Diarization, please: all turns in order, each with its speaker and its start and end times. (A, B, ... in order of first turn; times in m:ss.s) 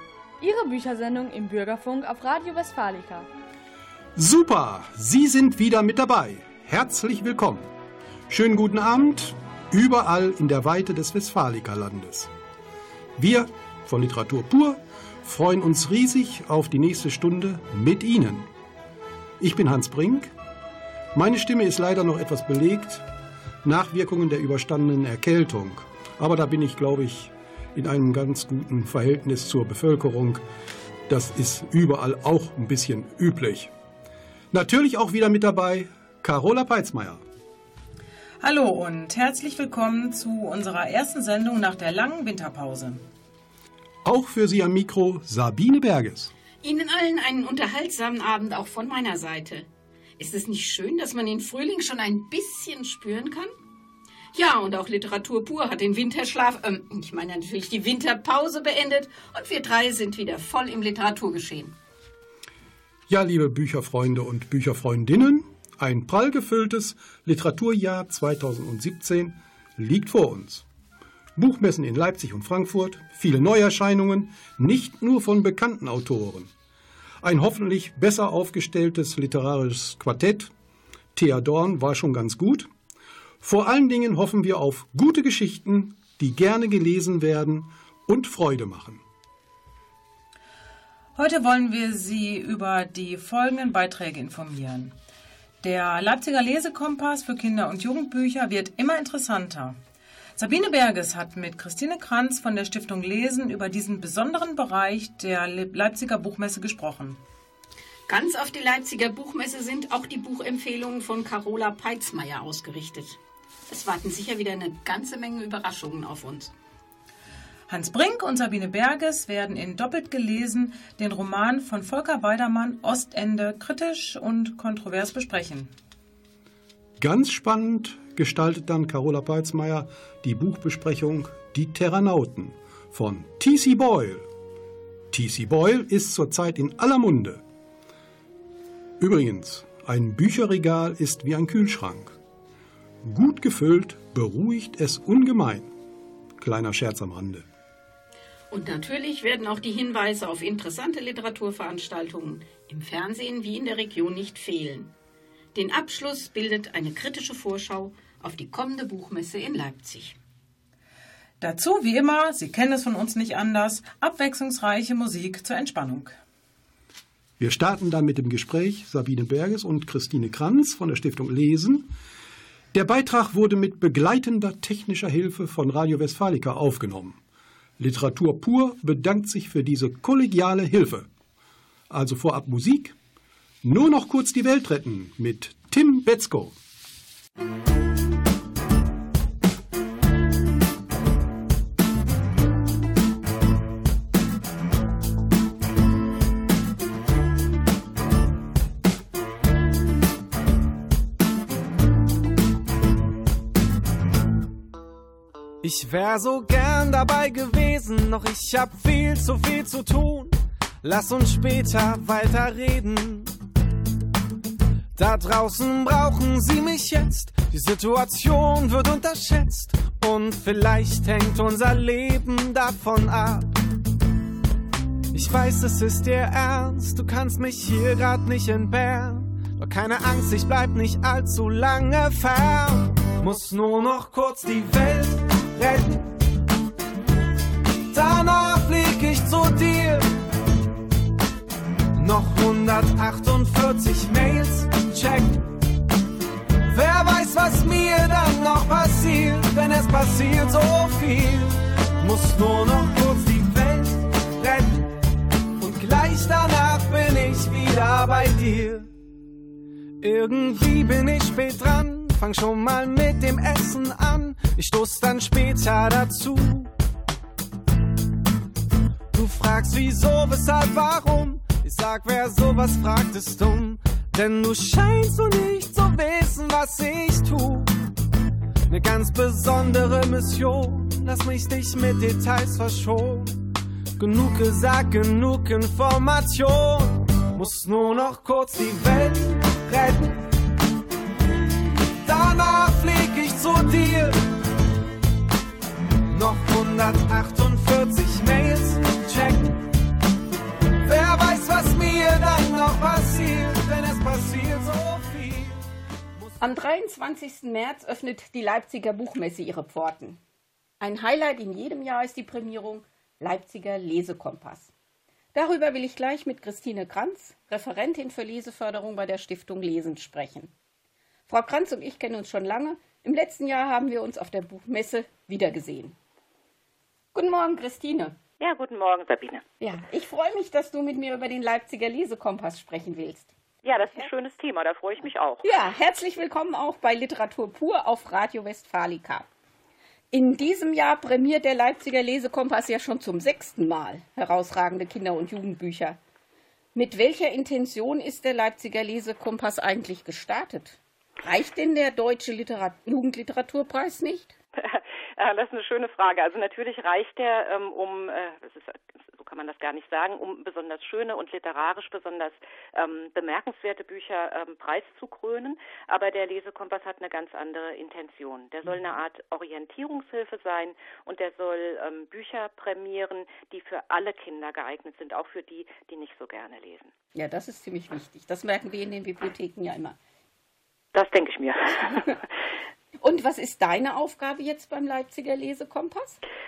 0:00.4-0:03.3 A
0:04.2-0:07.7 B
0:08.3-0:12.3 B
0:13.2-0:18.5 B
0:19.4-0:20.3 B
0:21.2-0:23.0 B
0:23.6-0:30.4 B
0:31.1-0:33.7 B
0:34.5-0:37.2 B
0:38.4-0:43.0 C
0:44.0-0:46.3 B
0:46.6-0:49.7 D
0:50.2-0:53.5 D
0:54.3-1:01.8 D
1:03.1-1:10.6 B
1:11.4-1:16.5 B
1:17.2-1:20.5 B
1:21.2-1:22.7 B
1:23.4-1:29.0 B
1:31.2-1:35.0 C
1:35.6-1:39.8 C
1:40.4-1:47.2 C
1:48.1-1:56.5 D
1:57.7-2:05.7 C
2:07.0-2:14.3 B
2:15.1-2:17.4 B
2:19.0-2:22.2 B
2:23.0-2:25.7 B
2:26.4-2:27.4 B
2:28.5-2:34.9 D
2:35.6-2:40.2 D
2:41.4-2:46.2 C
2:47.4-2:51.9 B
2:52.7-2:57.2 B
2:57.8-3:01.1 B
3:01.9-3:03.0 B
3:03.6-3:06.6 B
3:25.6-3:33.3 E
3:35.0-3:43.5 E
3:45.1-3:56.1 E
3:57.9-4:00.0 E
4:02.0-4:05.5 E
4:06.7-4:14.9 E
4:15.6-4:18.9 E
4:20.0-4:26.7 E
4:29.1-4:37.7 E
4:38.7-4:43.4 E
4:44.0-4:50.2 E
4:52.0-4:54.2 E
4:56.1-4:59.6 E
5:00.8-5:05.6 E
5:06.4-5:10.2 D
5:10.8-5:14.7 D
5:15.3-5:20.5 D
5:21.3-5:26.0 D
5:27.1-5:28.2 D
5:28.4-5:29.4 F
5:29.6-5:34.1 D
5:33.6-5:35.5 F
5:35.4-5:39.3 D
5:40.1-5:46.0 D
5:46.8-5:54.3 D
5:54.6-6:16.9 F
6:17.2-6:20.0 D
6:20.9-6:22.2 F
6:23.0-6:26.2 D